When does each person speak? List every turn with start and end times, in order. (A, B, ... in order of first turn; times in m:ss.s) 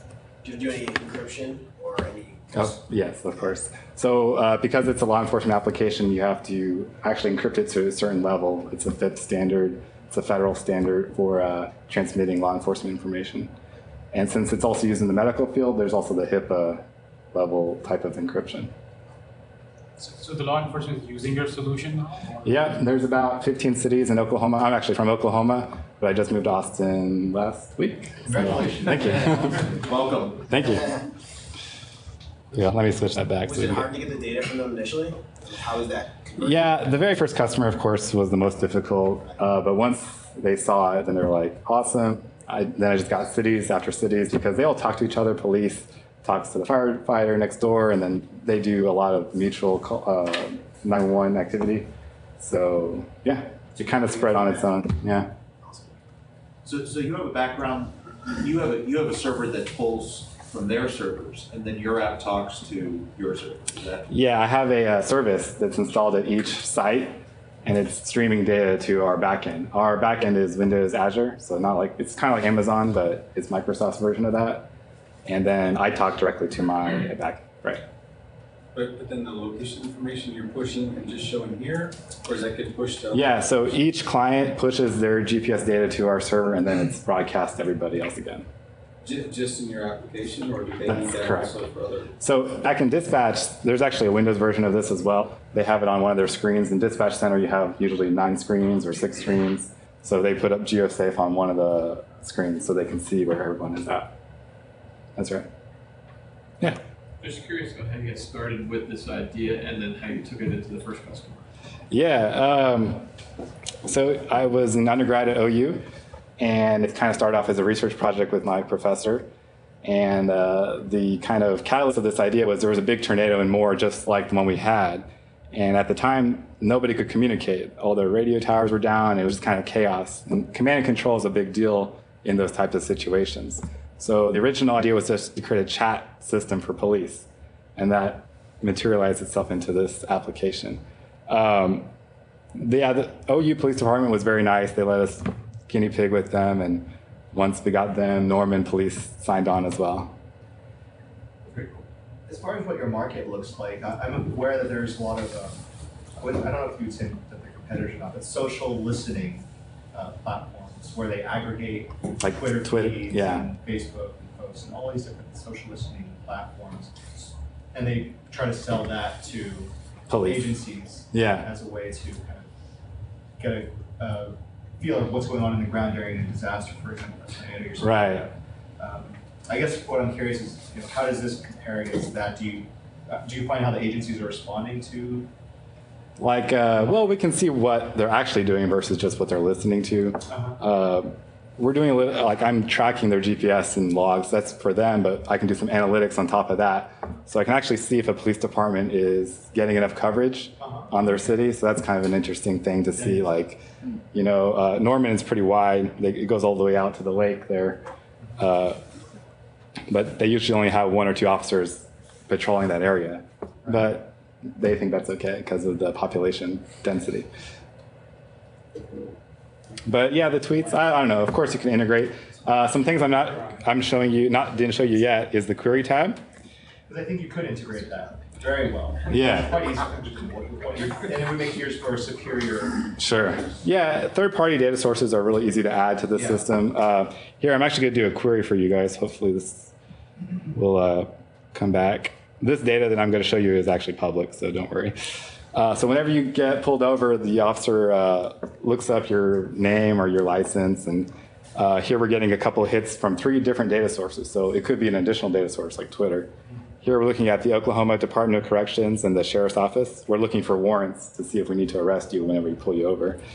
0:00.4-0:02.8 A
0:02.5-0:13.5 B
0:14.1-0:18.7 B
0:20.0-0:22.8 C
0:22.4-0:29.8 B
0:28.3-0:29.8 D
0:29.8-0:30.5 E
0:30.4-0:31.0 B
0:32.5-0:33.9 B
0:33.4-0:36.8 A
0:36.4-0:55.3 B
0:56.6-1:04.1 E
1:04.1-1:14.7 B
1:15.3-1:17.8 B
1:18.7-1:23.4 F
1:23.1-1:28.5 B
1:29.0-1:32.1 F
1:30.8-1:31.6 B
1:32.2-1:44.1 B
1:45.2-1:45.5 B
1:47.2-1:51.5 G
1:51.9-1:53.1 B
1:53.8-1:55.8 B
1:56.4-1:59.3 B
1:59.8-2:21.9 B
2:22.6-2:30.2 B
2:31.5-2:31.8 D
2:32.3-2:35.6 D
2:36.2-2:52.5 D
2:42.2-2:43.5 B
2:50.1-2:51.5 B
2:53.4-3:05.3 D
2:57.8-2:58.3 B
3:06.2-3:27.8 B
3:28.4-3:28.8 B
3:29.9-3:37.3 B
3:39.9-3:46.2 B
3:46.9-3:52.9 D
3:49.1-3:49.5 B
3:53.0-3:59.7 B
4:00.5-4:23.2 B